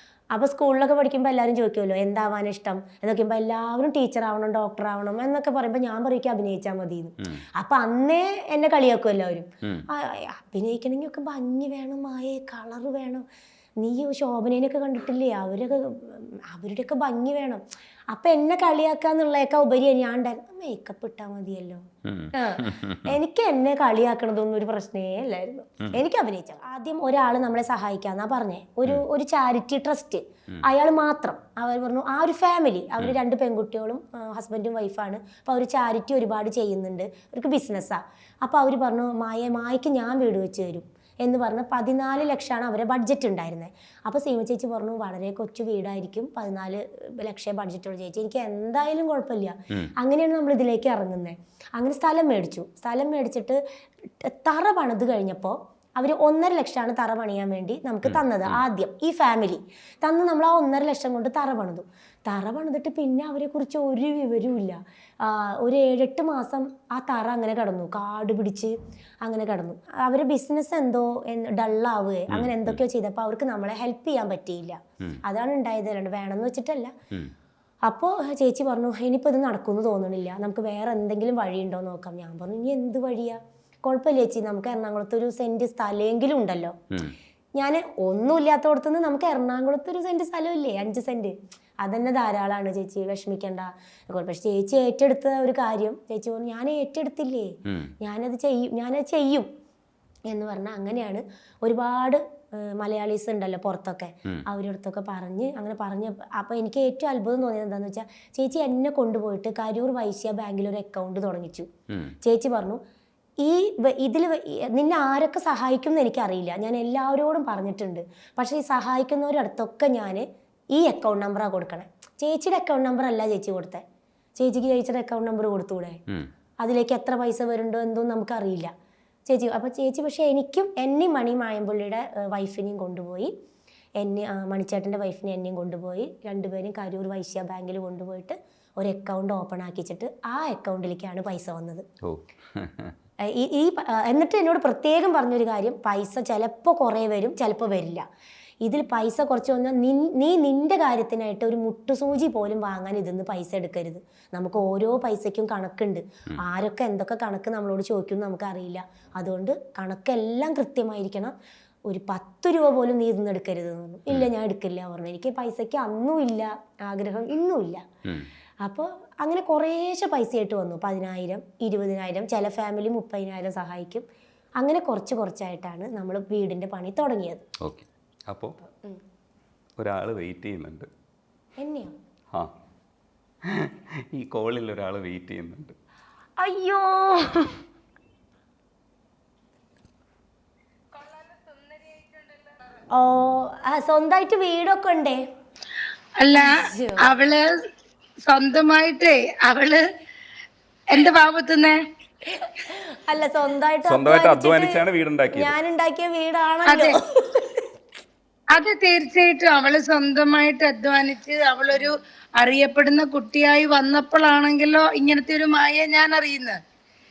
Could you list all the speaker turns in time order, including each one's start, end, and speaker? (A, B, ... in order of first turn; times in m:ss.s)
0:00.3-0:13.2 A
0:13.8-0:21.8 A
0:22.1-0:23.2 B
0:22.4-0:53.6 A
0:54.2-1:16.9 A
0:58.1-0:58.6 B
1:12.3-1:12.8 B
1:17.8-1:26.8 A
1:27.6-1:39.5 A
1:37.7-1:37.9 B
1:40.3-1:51.7 A
1:51.9-1:52.2 B
1:52.2-1:52.8 A
1:53.4-2:03.8 A
2:04.4-2:06.0 A
2:06.6-2:08.7 A
2:09.3-2:13.3 A
2:14.0-2:21.8 A
2:22.0-2:22.9 B
2:23.2-2:28.0 A
2:28.6-2:41.3 A
2:41.9-2:47.8 A
2:48.6-2:54.0 A
2:54.6-2:57.4 A
2:57.6-2:58.6 B
2:59.8-3:00.9 B
3:01.6-3:02.0 A
3:03.5-3:05.8 B
3:06.4-3:07.6 A
3:10.9-3:12.7 C
3:12.9-3:15.2 A
3:16.2-3:17.5 C
3:16.3-3:17.0 A
3:18.3-3:19.8 C
3:20.9-3:21.8 C
3:22.3-3:27.6 A
3:23.9-3:25.5 B
3:26.7-3:26.9 C
3:28.5-3:36.6 C